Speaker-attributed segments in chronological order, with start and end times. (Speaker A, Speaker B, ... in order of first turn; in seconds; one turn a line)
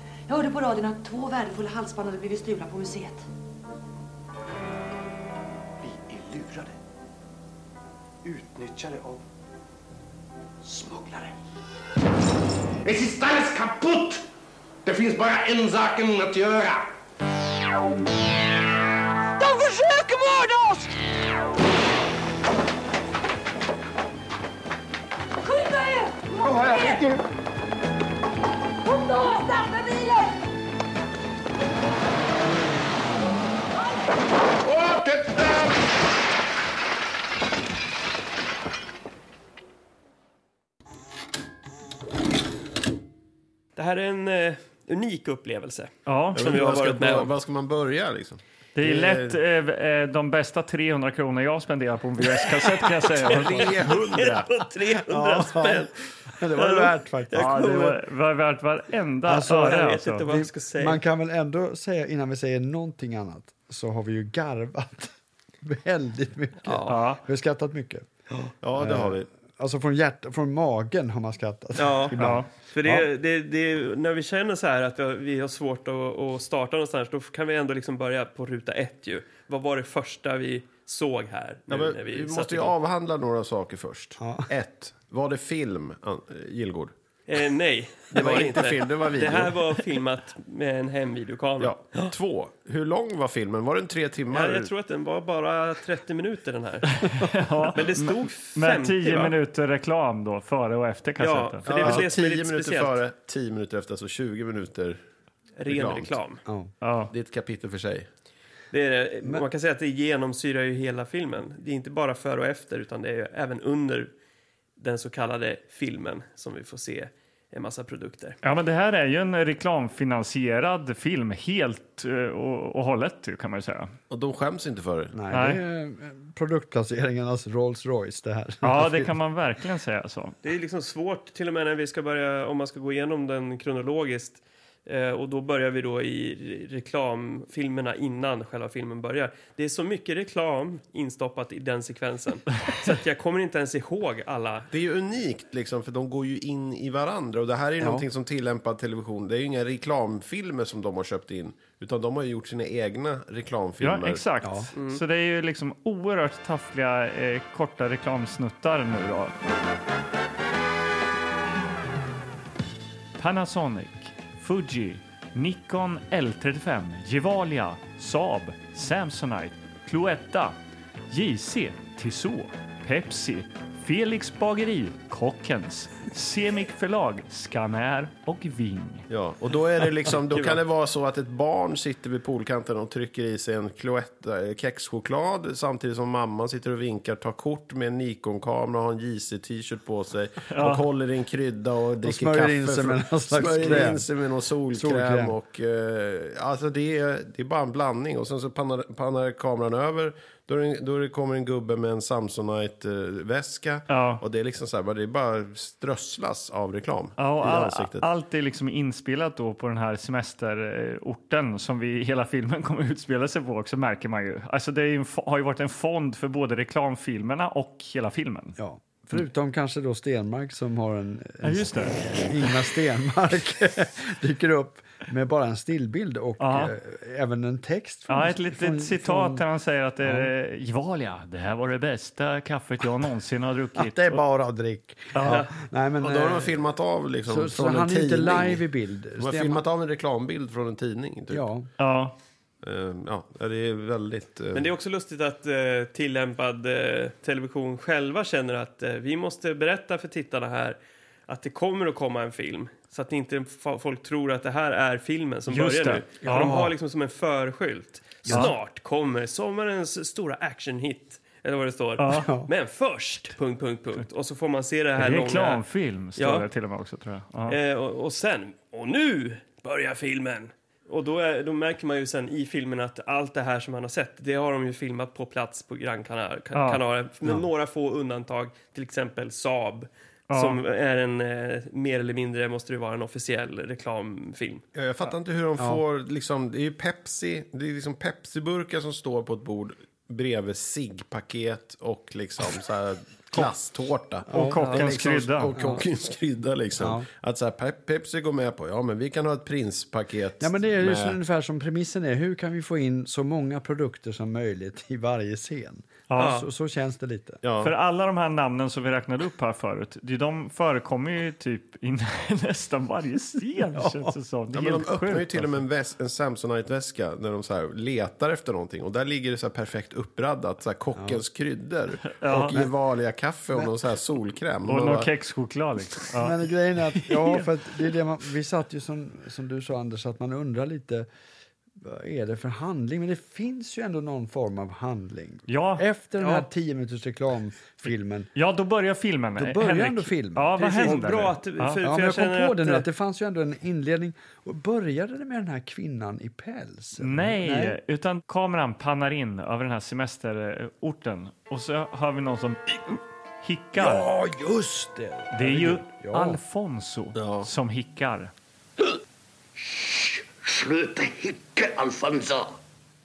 Speaker A: 0.3-3.3
Speaker B: 5.8-6.8
Speaker B: 8.2-9.2
Speaker B: 10.6-11.3
Speaker C: 12.8-14.2
Speaker C: 14.8-16.9
Speaker A: 19.4-20.9
Speaker A: 25.4-27.1
Speaker D: 26.5-27.1
Speaker A: 28.8-30.4
Speaker C: 34.6-35.7
Speaker E: 43.8-47.3
Speaker F: 46.1-46.4
Speaker G: 46.4-49.4
Speaker F: 48.8-53.7
Speaker G: 53.3-54.5
Speaker E: 53.4-58.0
Speaker H: 55.1-57.8
Speaker F: 57.3-60.2
Speaker H: 59.3-68.1
Speaker E: 59.4-61.0
Speaker E: 66.6-67.0
Speaker F: 66.9-67.2
Speaker G: 68.6-69.3
Speaker H: 68.8-73.0
Speaker E: 71.8-72.2
Speaker F: 72.2-72.5
Speaker E: 72.7-82.8
Speaker G: 81.7-86.9
Speaker H: 84.2-84.5
Speaker E: 87.3-92.1
Speaker G: 88.1-89.6
Speaker G: 91.6-94.7
Speaker E: 94.3-97.0
Speaker F: 97.0-101.7
Speaker E: 97.8-99.3
Speaker E: 101.2-103.0
Speaker G: 101.7-105.0
Speaker E: 105.6-106.4
Speaker G: 105.7-106.2
Speaker F: 106.8-107.1
Speaker G: 107.1-108.1
Speaker E: 108.7-114.1
Speaker E: 114.8-118.4
Speaker F: 118.4-123.9
Speaker G: 124.1-125.2
Speaker H: 125.1-129.1
Speaker F: 125.3-125.6
Speaker F: 128.6-130.4
Speaker E: 130.4-144.7
Speaker G: 144.7-154.2
Speaker H: 147.8-148.1
Speaker F: 153.8-159.3
Speaker H: 154.4-154.7
Speaker E: 154.8-155.0
Speaker F: 163.2-170.6
Speaker F: 171.1-179.1
Speaker G: 179.1-208.1
Speaker E: 180.1-180.6
Speaker F: 190.5-190.8
Speaker H: 192.0-194.1
Speaker H: 194.7-195.4
Speaker F: 203.9-204.2
Speaker F: 207.2-218.6
Speaker H: 218.6-229.4
Speaker F: 221.4-222.1
Speaker F: 226.4-226.7
Speaker F: 228.1-234.2
Speaker H: 230.0-230.3
Speaker H: 233.8-236.6
Speaker F: 235.1-235.4
Speaker E: 235.2-235.5
Speaker G: 236.0-238.6
Speaker H: 237.3-239.6
Speaker G: 239.2-241.5
Speaker H: 241.3-241.7
Speaker F: 241.8-242.2
Speaker G: 242.6-244.7
Speaker E: 244.5-265.6
Speaker F: 255.5-256.7
Speaker H: 256.2-256.6
Speaker F: 262.0-262.3
Speaker H: 262.1-262.5
Speaker F: 265.0-267.6
Speaker E: 266.2-266.5
Speaker E: 267.5-284.6
Speaker F: 276.5-276.8
Speaker F: 280.3-280.6
Speaker G: 284.8-301.2
Speaker H: 294.3-294.7
Speaker F: 294.3-295.5
Speaker E: 294.6-294.8
Speaker H: 295.6-295.9
Speaker H: 296.8-297.1
Speaker H: 300.4-307.4
Speaker F: 306.1-306.4
Speaker E: 306.2-306.5
Speaker G: 307.4-307.7
Speaker F: 307.6-315.6
Speaker H: 313.8-314.1
Speaker G: 314.5-325.1
Speaker H: 320.9-321.2
Speaker F: 322.2-322.6
Speaker H: 322.5-322.8
Speaker F: 324.7-327.5
Speaker H: 326.2-331.1
Speaker H: 331.8-338.3
Speaker F: 335.5-335.9
Speaker E: 336.2-336.5
Speaker F: 338.4-341.8
Speaker H: 339.4-340.6
Speaker E: 340.6-342.9
Speaker H: 341.8-347.8
Speaker F: 347.0-354.1
Speaker H: 353.8-356.4
Speaker F: 355.3-358.3
Speaker G: 357.2-357.5
Speaker D: 360.4-362.5